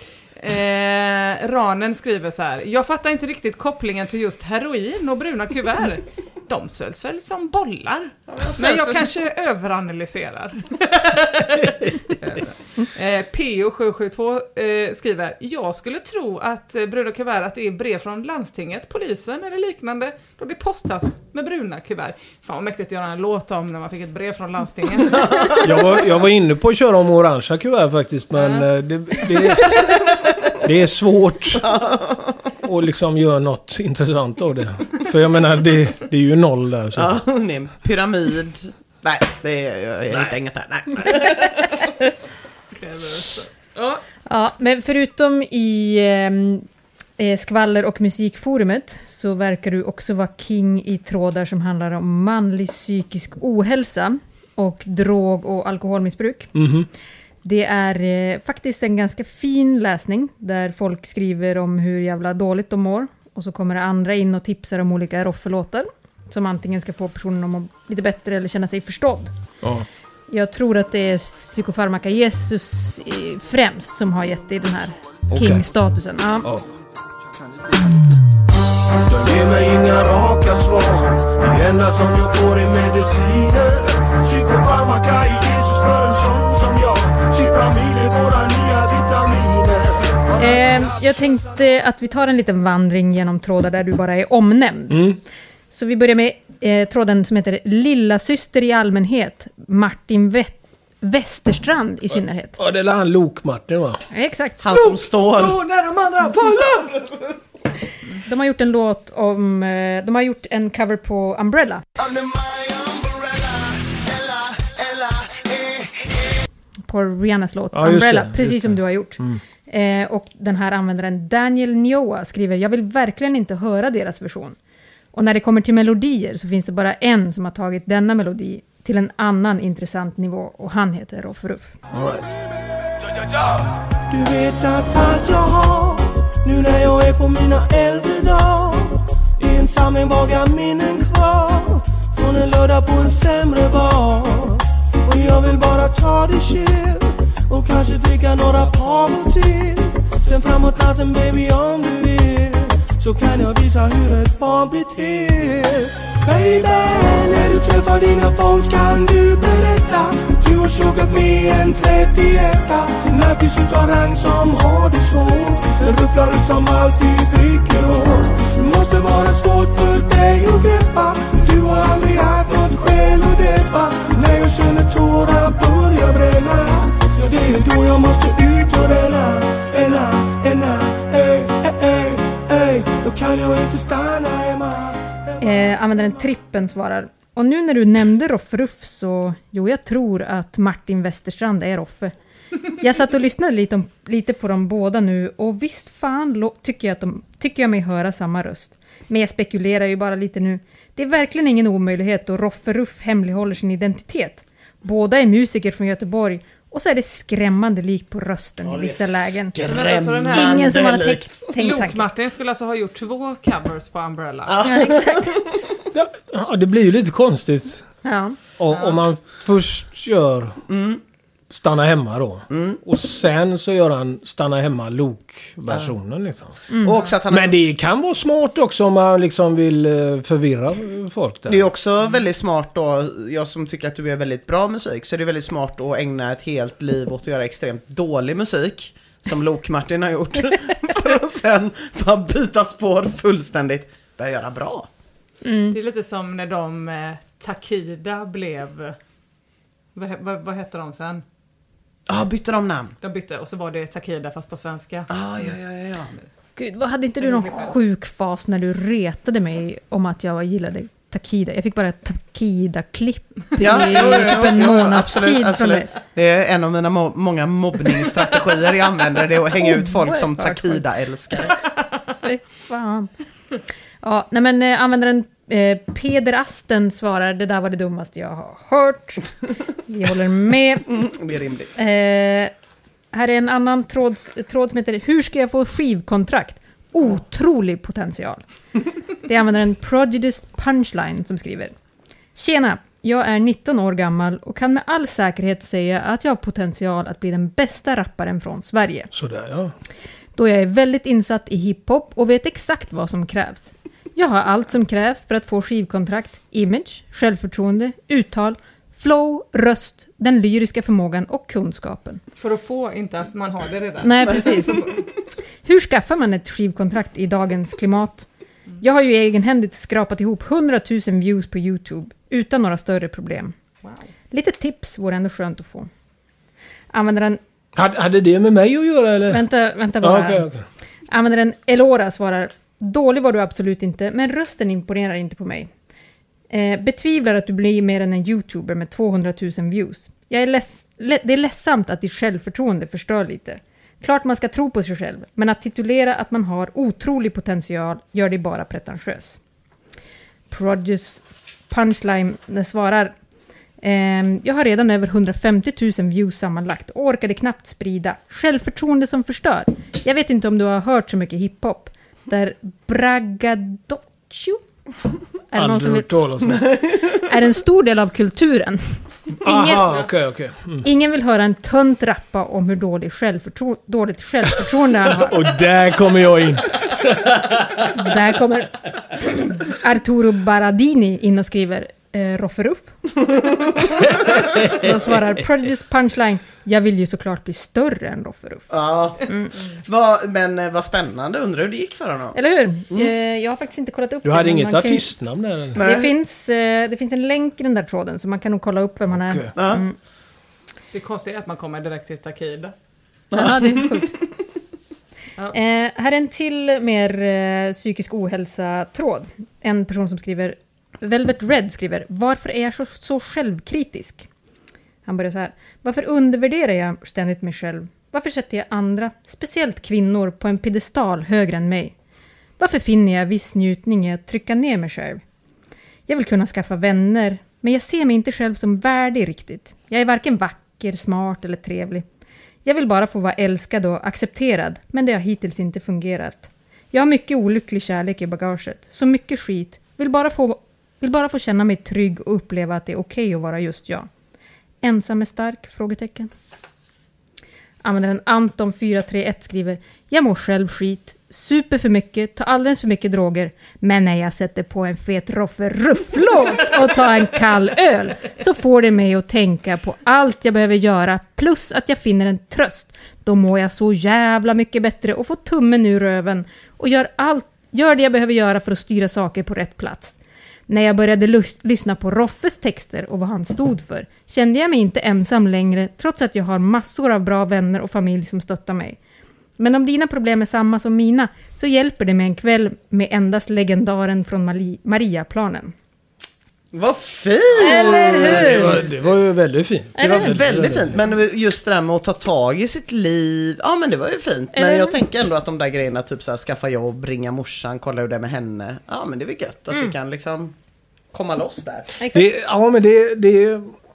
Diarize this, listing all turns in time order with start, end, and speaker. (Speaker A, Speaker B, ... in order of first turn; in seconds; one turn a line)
Speaker A: 0.4-25.6
Speaker B: 8.3-9.1
Speaker B: 25.2-25.6
Speaker C: 25.6-29.9
Speaker A: 28.4-28.6
Speaker A: 29.2-30.2
Speaker C: 30.6-31.6
Speaker B: 31.6-32.4
Speaker C: 32.6-37.2
Speaker B: 37.0-41.7
Speaker C: 40.1-40.3
Speaker A: 42.7-44.0
Speaker D: 44.2-46.7
Speaker D: 47.2-56.5
Speaker C: 56.5-56.9
Speaker D: 57.4-69.3
Speaker D: 70.3-76.5
Speaker C: 75.3-75.7
Speaker E: 79.0-91.0
Speaker D: 90.4-95.1
Speaker C: 94.9-95.2
Speaker D: 95.7-102.6
Speaker C: 102.6-104.0
Speaker D: 104.1-104.6
Speaker B: 104.6-105.6
Speaker D: 108.2-111.8
Speaker E: 112.2-113.6
Speaker D: 116.9-124.6
Speaker C: 117.7-119.4
Speaker D: 125.1-131.7
Speaker C: 131.9-132.3
Speaker E: 133.2-185.8
Speaker D: 185.4-192.1
Speaker D: 192.8-209.5
Speaker B: 208.6-211.4
Speaker A: 209.6-210.7
Speaker D: 210.3-212.1
Speaker A: 211.6-214.7
Speaker B: 214.5-215.4
Speaker D: 214.6-215.3
Speaker C: 215.9-217.8
Speaker D: 218.0-218.4
Speaker C: 218.6-220.6
Speaker A: 218.7-219.0
Speaker B: 220.7-221.0
Speaker C: 221.5-226.6
Speaker B: 222.5-222.8
Speaker D: 226.7-227.0
Speaker B: 226.8-227.6
Speaker C: 227.3-231.7
Speaker B: 231.5-244.9
Speaker D: 245.4-245.8
Speaker A: 245.7-249.0
Speaker A: 249.9-251.2
Speaker B: 252.1-252.9
Speaker A: 253.0-255.5
Speaker B: 255.1-256.1
Speaker D: 256.6-265.9
Speaker A: 257.2-257.7
Speaker B: 263.6-271.5
Speaker A: 263.6-264.8
Speaker D: 269.6-270.8
Speaker D: 272.2-273.1
Speaker D: 274.0-280.9
Speaker B: 280.9-281.7
Speaker D: 281.8-282.5
Speaker D: 283.1-288.4
Speaker D: 289.2-291.7
Speaker D: 292.3-299.1
Speaker C: 299.1-299.7
Speaker D: 300.4-312.2
Speaker A: 312.4-314.8
Speaker D: 314.0-315.0
Speaker D: 315.6-318.3
Speaker D: 318.8-323.5
Speaker A: 323.8-324.1
Speaker D: 324.3-325.9
Speaker D: 326.9-327.4
Speaker C: 327.7-329.4
Speaker D: 329.3-330.5
Speaker C: 330.0-330.6
Speaker D: 331.1-335.7
Speaker D: 336.5-349.4
Speaker D: 350.5-353.1
Speaker D: 353.8-364.6
Speaker D: 365.5-369.9
Speaker C: 365.5-366.6
Speaker C: 369.4-370.9
Speaker D: 370.8-375.4
Speaker C: 375.1-377.8
Speaker D: 377.9-378.8
Speaker D: 379.3-383.2
Speaker C: 384.0-385.4
Speaker D: 384.7-388.7
Speaker B: 388.7-392.4
Speaker D: 389.3-389.5
Speaker D: 392.3-395.1
Speaker C: 394.2-395.8
Speaker B: 395.7-396.1
Speaker D: 395.7-399.9
Speaker C: 399.1-399.5
Speaker B: 399.5-399.8
Speaker A: 400.9-402.7
Speaker B: 403.3-404.0
Speaker D: 403.3-404.2
Speaker D: 405.5-414.3
Speaker D: 415.1-421.9
Speaker D: 422.6-425.2
Speaker D: 426.1-432.1
Speaker D: 432.6-444.1
Speaker D: 444.8-446.3
Speaker D: 447.8-470.2
Speaker D: 470.7-479.0
Speaker D: 479.6-485.7
Speaker B: 486.7-488.9
Speaker D: 487.6-488.8
Speaker C: 487.6-491.0
Speaker D: 489.9-490.4
Speaker B: 490.0-500.5
Speaker D: 494.5-494.9
Speaker B: 501.1-501.9
Speaker D: 502.0-502.2
Speaker C: 502.1-503.7